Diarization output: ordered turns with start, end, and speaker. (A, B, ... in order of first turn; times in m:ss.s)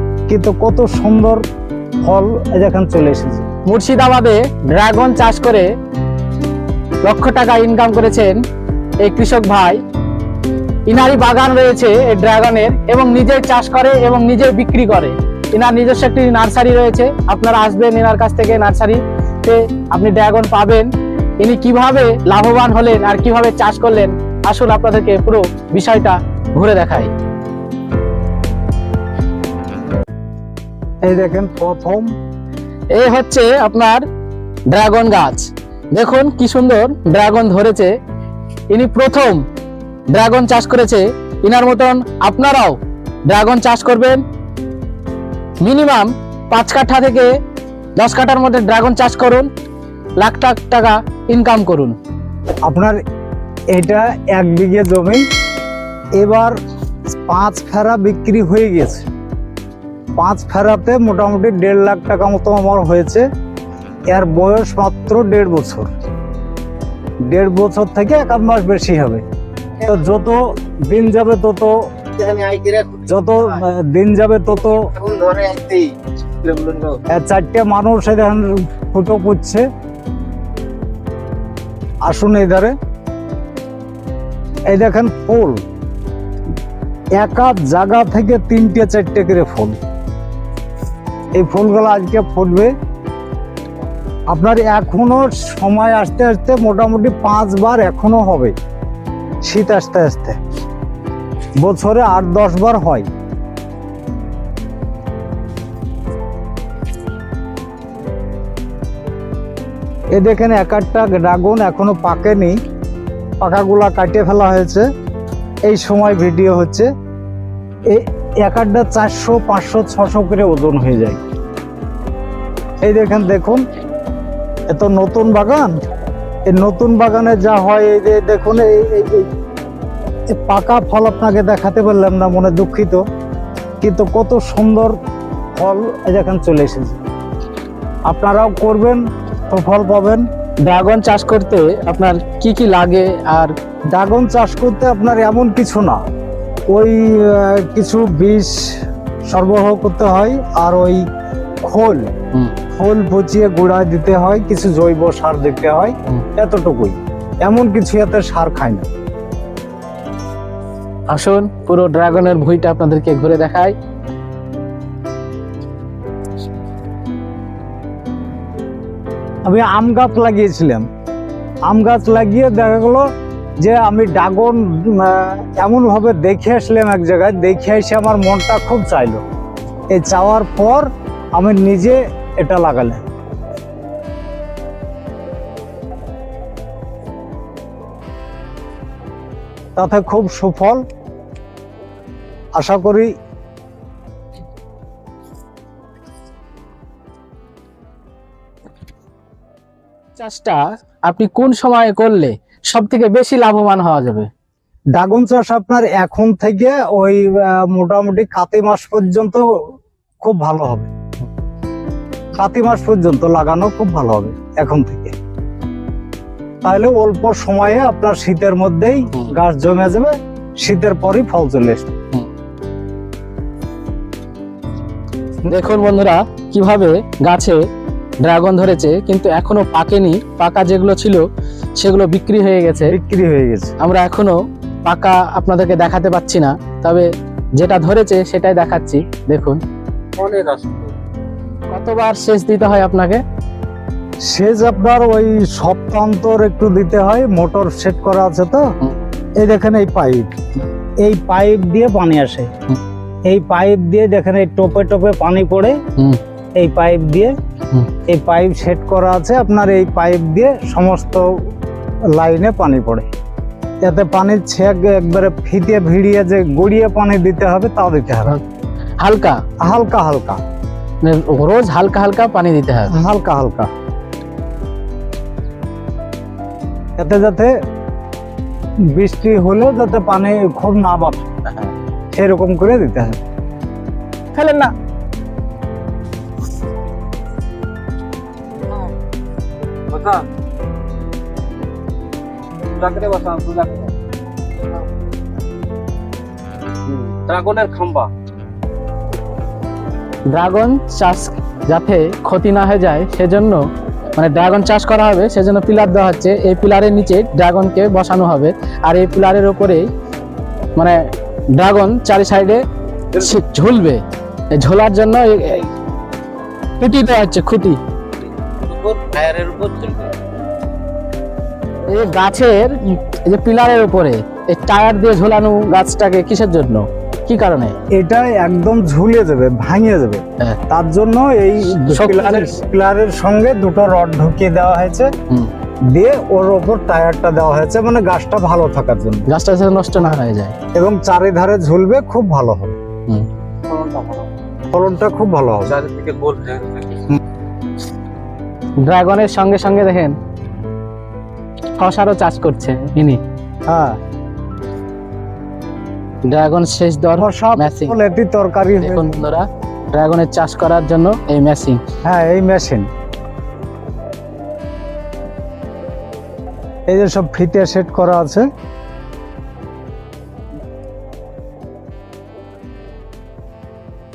0:00.3-0:01.4 A
0:02.0-0:03.5 A
0:03.7-0:05.7 B
0:07.0-0:08.4 B
0:09.0-0:09.8 B
0:10.9-0:20.9 B
0:21.4-0:27.1 B
0:31.1-0:32.1 A
0:32.9-0:34.0 B
0:34.7-0:37.9 B
0:38.7-0:39.4 B
0:40.1-0:44.2 B
0:45.6-0:47.3 B
0:48.0-0:49.5 B
0:50.2-0:52.0 B
0:52.7-0:53.0 A
0:53.7-0:55.2 A
0:56.2-0:56.5 A
0:57.1-0:59.1 A
1:00.2-1:03.3 A
1:04.1-1:05.9 A
1:07.3-1:09.2 A
1:09.8-1:11.7 A
1:12.2-1:13.0 C
1:13.0-1:14.9 A
1:15.0-1:17.0 C
1:17.1-1:19.6 A
1:22.1-1:22.7 A
1:24.7-1:25.6 A
1:27.2-1:29.8 A
1:31.4-1:32.7 A
1:34.3-1:38.6 A
1:39.4-1:40.4 A
1:41.6-1:43.1 A
1:50.1-1:52.6 A
1:53.4-1:54.8 A
1:55.7-1:56.9 A
1:57.9-2:01.2 A
2:02.8-2:03.6 A
2:04.7-2:05.7 A
2:06.5-2:09.3 A
2:10.3-2:13.0 A
2:13.8-2:15.0 A
2:15.6-2:17.0 A
2:18.1-2:20.2 A
2:20.6-2:23.5 B
2:23.9-2:26.0 A
2:26.7-2:28.6 A
2:29.3-2:31.0 A
2:31.6-2:32.1 A
2:32.8-2:38.9 A
2:41.1-2:43.8 B
2:49.5-2:50.8 A
2:51.7-2:53.0 A
2:53.6-2:59.2 A
2:59.9-3:03.0 A
3:09.8-3:10.8 A
3:12.6-3:13.1 A
3:20.2-3:24.3 B
3:25.0-3:29.4 A
3:30.2-3:30.9 A
3:32.4-3:35.1 A
3:36.6-3:41.9 A
3:45.5-3:47.6 B
3:48.2-3:51.2 B
3:51.8-3:52.9 B
3:52.9-3:53.7 A
3:53.8-3:57.1 B
3:57.6-3:59.6 B
4:00.2-4:00.9 C
4:01.7-4:03.2 B
4:04.3-4:08.7 A
4:09.4-4:10.4 A
4:11.0-4:12.5 A
4:13.3-4:15.8 A
4:16.6-4:17.3 A
4:18.1-4:21.3 A
4:22.2-4:23.1 A
4:23.8-4:28.4 A
4:29.0-4:29.4 B
4:29.6-4:30.4 A
4:31.0-4:32.9 B
4:32.9-4:33.7 A
4:37.0-4:37.5 A
4:38.9-4:41.3 A
4:41.5-4:41.7 B
4:42.1-4:43.2 A
4:44.3-4:44.7 B
4:49.9-4:50.3 C
4:52.7-4:53.9 C
4:56.9-4:58.1 C
5:00.3-5:03.6 B
5:04.2-5:09.9 B
5:11.6-5:14.0 B
5:14.6-5:15.7 B
5:16.8-5:17.8 B
5:18.7-5:20.0 C
5:21.9-5:27.8 B
5:28.0-5:35.1 A
5:31.7-5:32.6 B
5:35.9-5:39.3 A
5:39.3-5:40.6 B
5:40.8-5:42.8 A
5:43.7-5:44.3 C
5:44.7-5:45.8 A
5:45.8-5:47.0 C
5:48.8-5:50.2 B
5:51.8-5:53.2 B
5:53.7-5:54.0 A
5:56.3-5:58.0 B
5:57.2-5:59.2 A
5:58.8-6:01.8 B
6:02.0-6:02.9 A
6:06.9-6:08.5 A